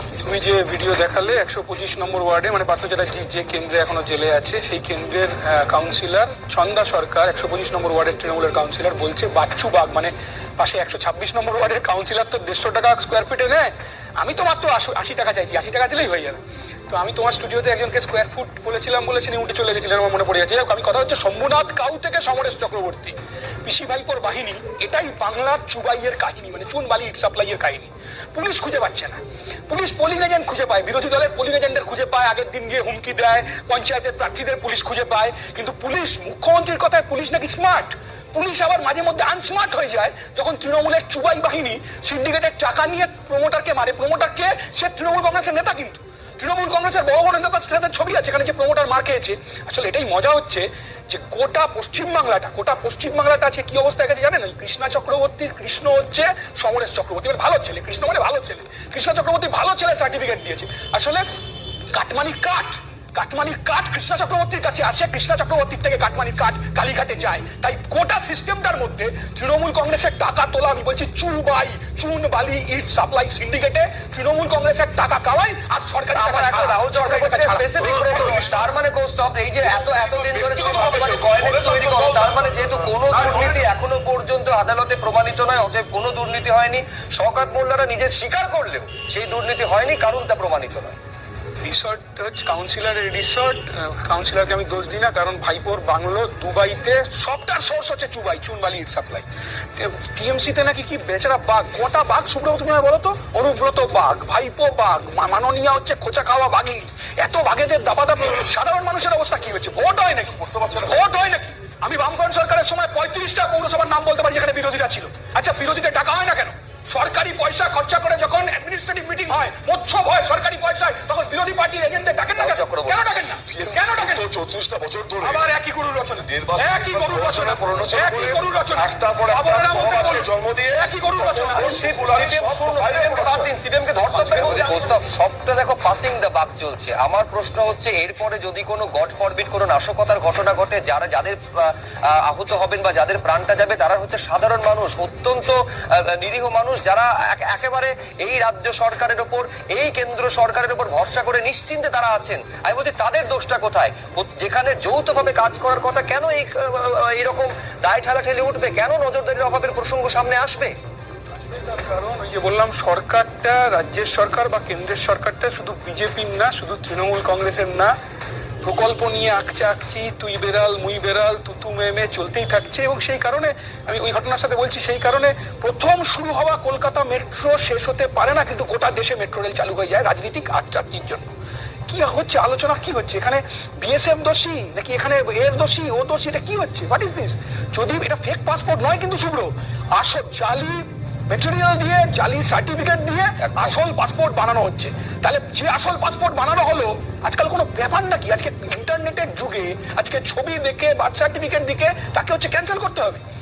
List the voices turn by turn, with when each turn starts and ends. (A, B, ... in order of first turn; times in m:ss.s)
0:00.2-1:01.2 A
1:01.9-1:18.7 A
1:16.1-1:31.0 B
1:19.8-1:23.6 A
1:31.6-1:39.2 A
1:39.8-2:04.3 A
1:50.5-1:50.9 C
2:02.4-2:03.3 B
2:03.6-2:05.4 C
2:05.2-2:13.5 A
2:06.3-2:12.2 C
2:11.6-2:40.7 B
2:14.1-2:14.9 A
2:41.4-2:47.9 A
2:48.6-3:01.3 A
3:01.9-3:23.2 A
3:13.4-3:13.8 B